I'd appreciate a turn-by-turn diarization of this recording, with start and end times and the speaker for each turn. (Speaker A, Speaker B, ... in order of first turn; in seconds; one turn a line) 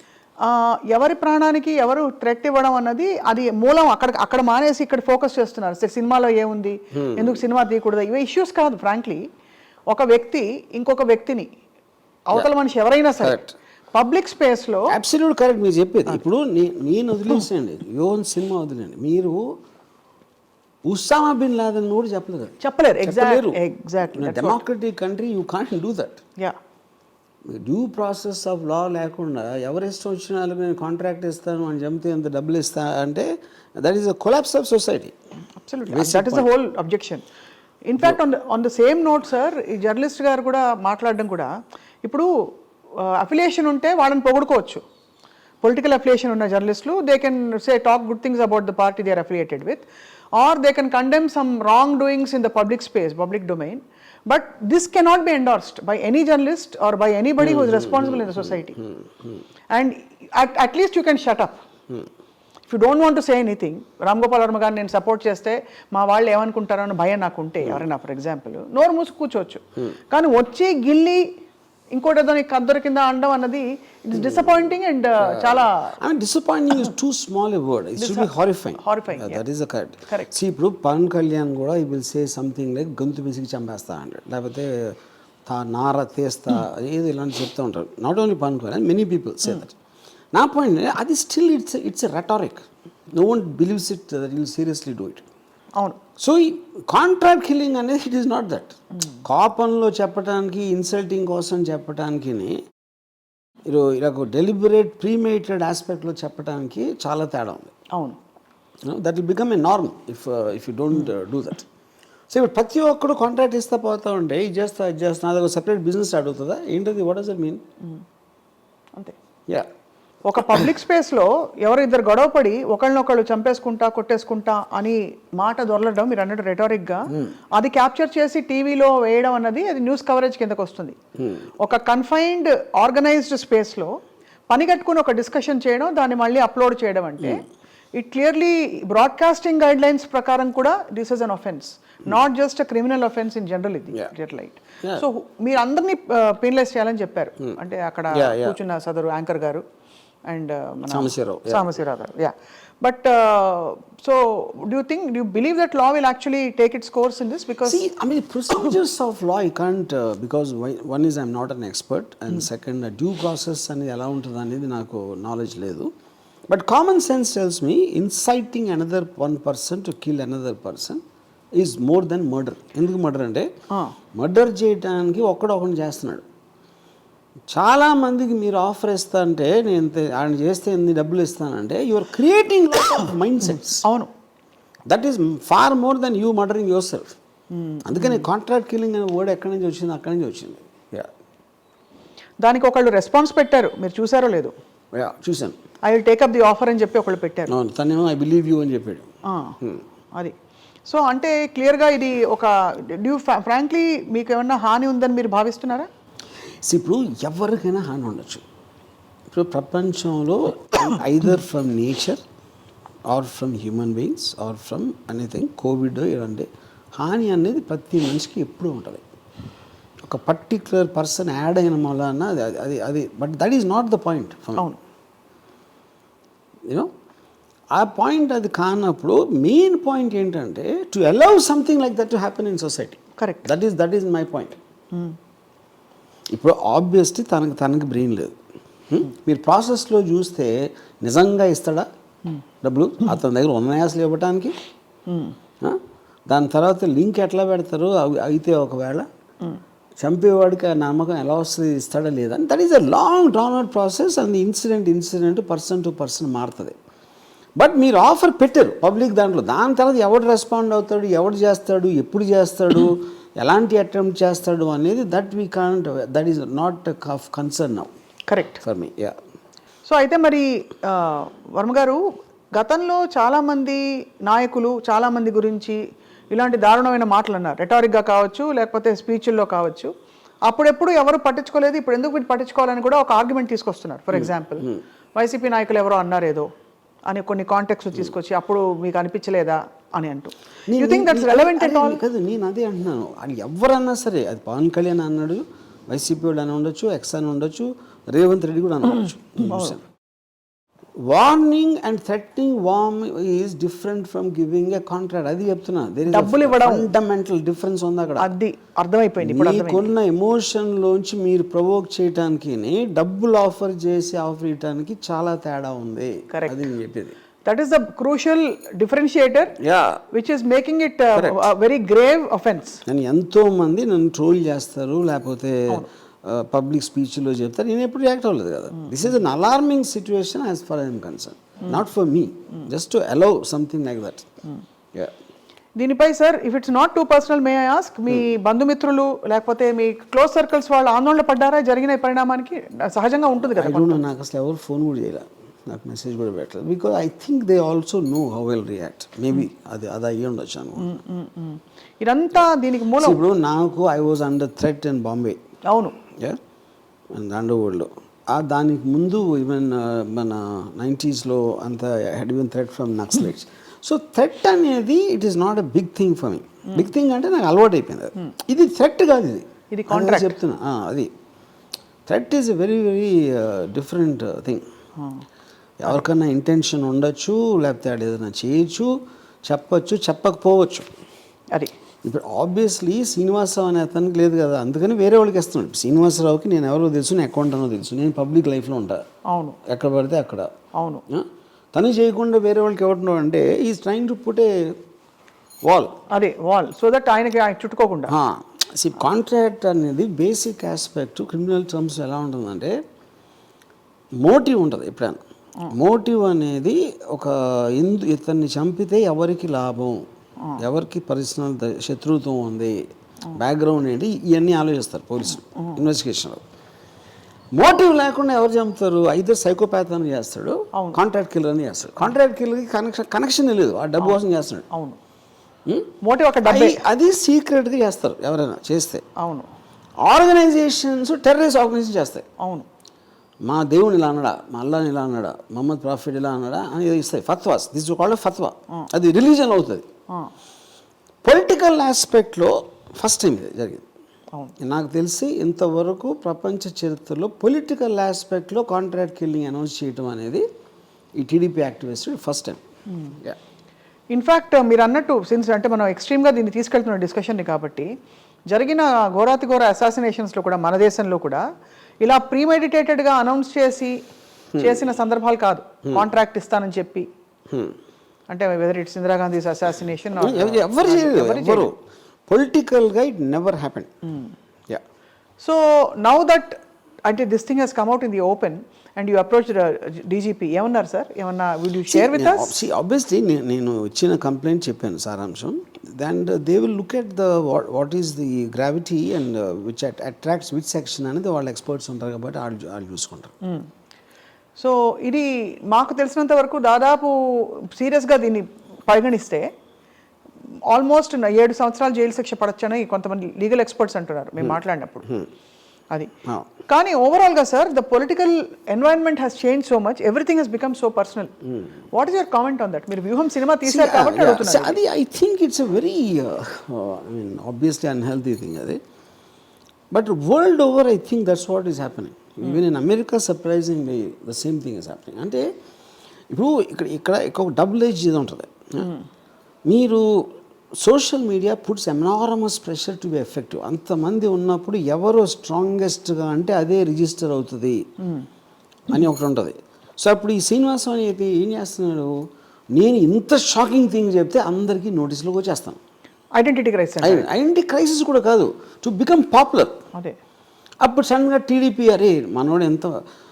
Speaker A: 0.4-9.2
Speaker B: 6.9-7.4
Speaker A: 9.9-11.5
Speaker A: 12.3-13.4
Speaker B: 13.2-13.5
Speaker A: 13.9-14.9
Speaker B: 14.9-19.5
Speaker B: 20.9-23.6
Speaker A: 22.6-24.6
Speaker B: 24.1-26.2
Speaker B: 27.4-35.1
Speaker A: 35.6-37.2
Speaker B: 35.9-36.5
Speaker A: 37.9-41.5
Speaker A: 42.0-44.8
Speaker A: 45.6-49.8
Speaker A: 50.4-58.8
Speaker B: 57.4-59.4
Speaker A: 59.7-61.6
Speaker A: 62.7-71.3
Speaker A: 71.9-76.0
Speaker B: 75.3-89.8
Speaker A: 78.0-79.4
Speaker B: 90.3-95.3
Speaker B: 96.2-102.6
Speaker B: 103.7-107.7
Speaker A: 107.9-108.2
Speaker B: 108.8-111.7
Speaker B: 112.3-117.6
Speaker A: 120.2-131.0
Speaker B: 131.2-131.4
Speaker A: 131.6-134.0
Speaker A: 134.5-149.6
Speaker B: 148.1-148.6
Speaker A: 150.3-157.8
Speaker B: 150.9-151.7
Speaker B: 157.6-165.9
Speaker B: 166.5-171.0
Speaker B: 171.6-173.5
Speaker B: 174.2-176.2
Speaker B: 177.5-183.8
Speaker A: 183.8-184.1
Speaker B: 184.9-187.1
Speaker A: 187.5-188.2
Speaker B: 187.8-191.1
Speaker A: 192.4-194.5
Speaker B: 194.9-195.6
Speaker A: 195.8-197.5
Speaker B: 197.5-199.1
Speaker A: 199.3-199.6
Speaker A: 200.9-205.9
Speaker B: 206.6-208.4
Speaker B: 209.3-212.2
Speaker B: 213.1-219.0
Speaker B: 220.0-224.7
Speaker B: 227.7-234.6
Speaker A: 233.2-233.5
Speaker B: 236.3-238.3
Speaker B: 238.9-241.9
Speaker B: 242.6-244.5
Speaker A: 245.1-245.3
Speaker B: 245.6-249.1
Speaker B: 250.0-256.8
Speaker B: 257.6-267.9
Speaker A: 268.3-268.6
Speaker B: 268.6-269.2
Speaker A: 269.9-272.0
Speaker A: 272.6-275.8
Speaker A: 276.3-279.9
Speaker A: 280.4-286.5
Speaker B: 284.1-284.8
Speaker A: 287.1-292.0
Speaker B: 290.7-299.8
Speaker A: 299.4-299.7
Speaker B: 301.1-308.3
Speaker A: 306.1-306.9
Speaker A: 308.2-309.9
Speaker B: 309.2-317.1
Speaker A: 316.3-316.6
Speaker A: 317.4-319.5
Speaker B: 319.6-320.0
Speaker A: 320.1-322.8
Speaker B: 322.8-334.3
Speaker A: 335.8-344.0
Speaker B: 343.5-350.9
Speaker A: 350.8-353.2
Speaker B: 353.0-355.4
Speaker A: 355.7-356.0
Speaker B: 357.1-371.1
Speaker A: 369.7-370.4
Speaker B: 372.1-374.6
Speaker B: 375.8-378.9
Speaker B: 379.4-380.9
Speaker B: 382.0-389.0
Speaker A: 389.3-389.6
Speaker B: 389.6-390.5
Speaker A: 390.7-391.0
Speaker B: 391.1-394.7
Speaker B: 395.6-395.9
Speaker A: 396.1-398.1
Speaker B: 398.1-402.8
Speaker B: 404.2-410.1
Speaker B: 410.6-412.8
Speaker B: 413.3-416.4
Speaker A: 415.5-415.8
Speaker B: 417.5-424.6
Speaker A: 420.7-421.0
Speaker A: 424.7-425.0
Speaker B: 425.6-425.9
Speaker A: 426.0-426.8
Speaker B: 426.4-429.0
Speaker A: 429.2-429.5
Speaker B: 430.0-432.2
Speaker A: 432.4-432.6
Speaker B: 433.4-439.9
Speaker B: 441.2-443.8
Speaker B: 444.6-450.4
Speaker B: 451.1-452.6
Speaker B: 453.1-453.4
Speaker A: 454.1-457.9
Speaker A: 458.5-461.4
Speaker A: 462.0-464.0
Speaker B: 464.5-464.8
Speaker A: 464.6-467.1
Speaker B: 467.5-467.8
Speaker A: 468.3-471.7
Speaker B: 470.2-473.9
Speaker A: 475.4-482.6
Speaker B: 481.9-493.3
Speaker A: 493.4-493.7
Speaker A: 494.6-499.5
Speaker A: 500.7-505.2
Speaker A: 506.6-511.3
Speaker A: 511.9-514.8
Speaker B: 513.6-518.8
Speaker B: 519.9-525.5
Speaker B: 526.3-528.9
Speaker B: 529.6-537.8
Speaker B: 538.9-542.2
Speaker B: 542.7-545.8
Speaker A: 546.3-547.2
Speaker B: 547.0-549.8
Speaker B: 550.8-552.9